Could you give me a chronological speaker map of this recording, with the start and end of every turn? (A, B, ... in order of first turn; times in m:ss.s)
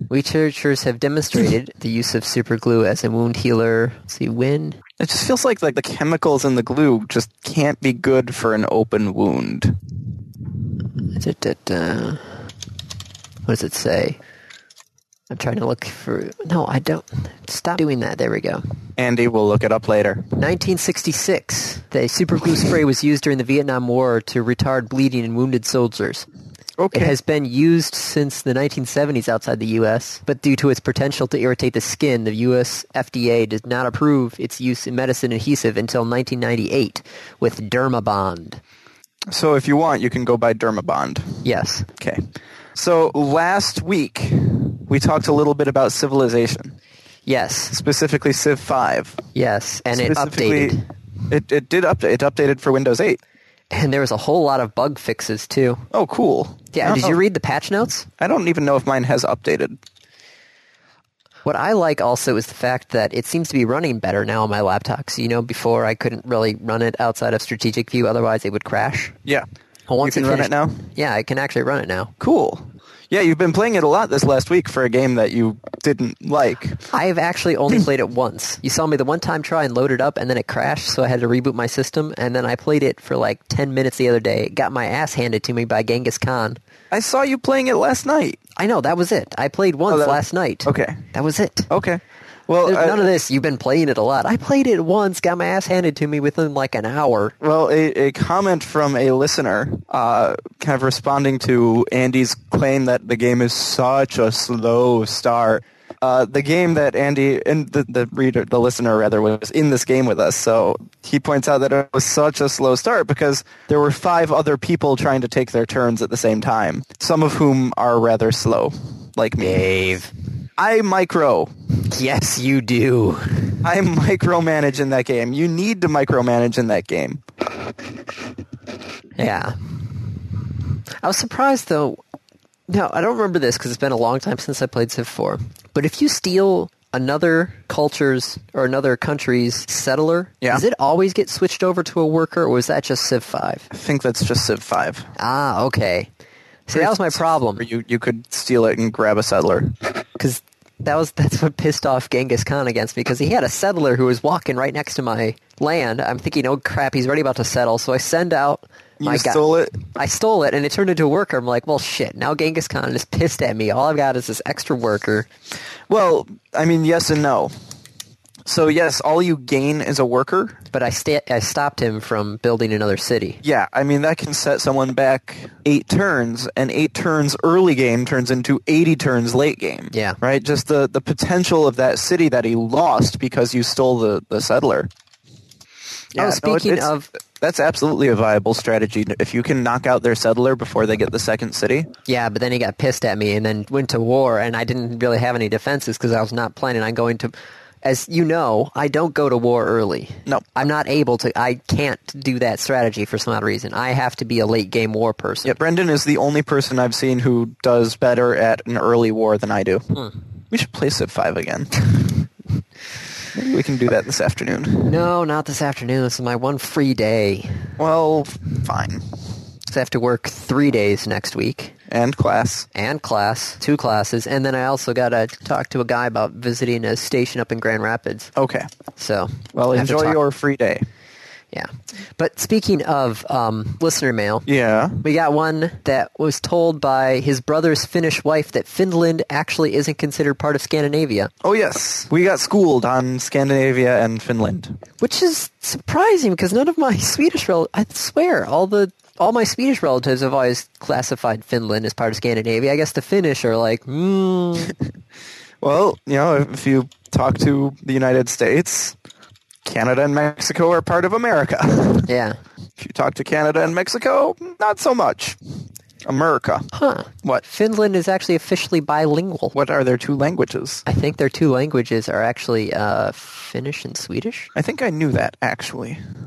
0:00.1-0:04.8 A
0:05.0-0:09.8 B
0:11.1-0:12.4 A
0:13.5-0:14.2 A
0:15.3-0:18.6 A
0:19.0-0:20.3 B
0:20.4-0:26.2 A
0:26.8-0:27.1 B
0:26.9-0:38.6 A
0:39.3-0:41.4 B
0:41.4-0:41.9 A
0:42.0-0:46.8 B
0:47.2-0:47.8 A
0:47.7-0:49.2 B
0:49.4-0:50.8 A
0:49.9-0:50.8 B
0:51.3-0:53.2 B
0:53.7-0:55.9 A
0:55.9-0:57.2 B
0:56.7-0:58.1 A
0:58.2-0:59.8 B
1:01.4-1:09.2 A
1:09.9-1:12.1 A
1:10.0-1:10.8 B
1:12.2-1:16.9 B
1:16.9-1:26.6 A
1:26.9-1:28.4 B
1:28.6-1:31.7 A
1:29.9-1:31.0 B
1:31.7-1:33.1 B
1:32.6-1:37.4 A
1:37.4-1:59.7 B
1:59.4-2:00.1 A
2:00.6-2:01.5 B
2:01.8-2:03.6 A
2:03.6-2:07.2 B
2:09.2-2:09.7 A
2:11.0-2:12.0 A
2:12.7-2:23.7 A
2:23.7-2:25.1 B
2:25.2-2:26.1 A
2:26.7-2:27.6 A
2:26.7-2:29.8 B
2:30.2-2:45.3 A
2:39.0-2:39.8 B
2:45.9-2:47.5 B
2:48.5-2:50.6 B
2:50.7-2:53.4 A
2:53.4-3:04.9 B
2:59.9-3:00.2 A
3:06.1-3:07.1 A
3:06.1-3:11.9 B
3:12.1-3:25.6 A
3:25.4-3:29.9 B
3:30.5-3:31.9 B
3:33.3-3:35.1 B
3:34.9-3:37.7 A
3:37.8-3:39.1 B
3:39.7-3:41.8 A
3:41.9-3:42.7 B
3:42.7-3:48.3 A
3:48.4-3:48.7 B
3:49.0-3:50.2 A
3:49.5-3:50.9 B
3:51.5-3:54.5 A
3:54.5-3:55.0 B
3:55.0-4:01.3 A
4:01.4-4:04.8 B
4:05.0-4:14.8 A
4:15.6-4:19.0 B
4:19.6-4:22.1 B
4:22.1-4:22.4 A
4:22.8-4:25.4 B
4:26.0-4:26.7 B
4:26.7-4:29.6 A
4:29.5-4:30.8 B
4:30.9-4:34.5 A
4:34.6-4:36.0 B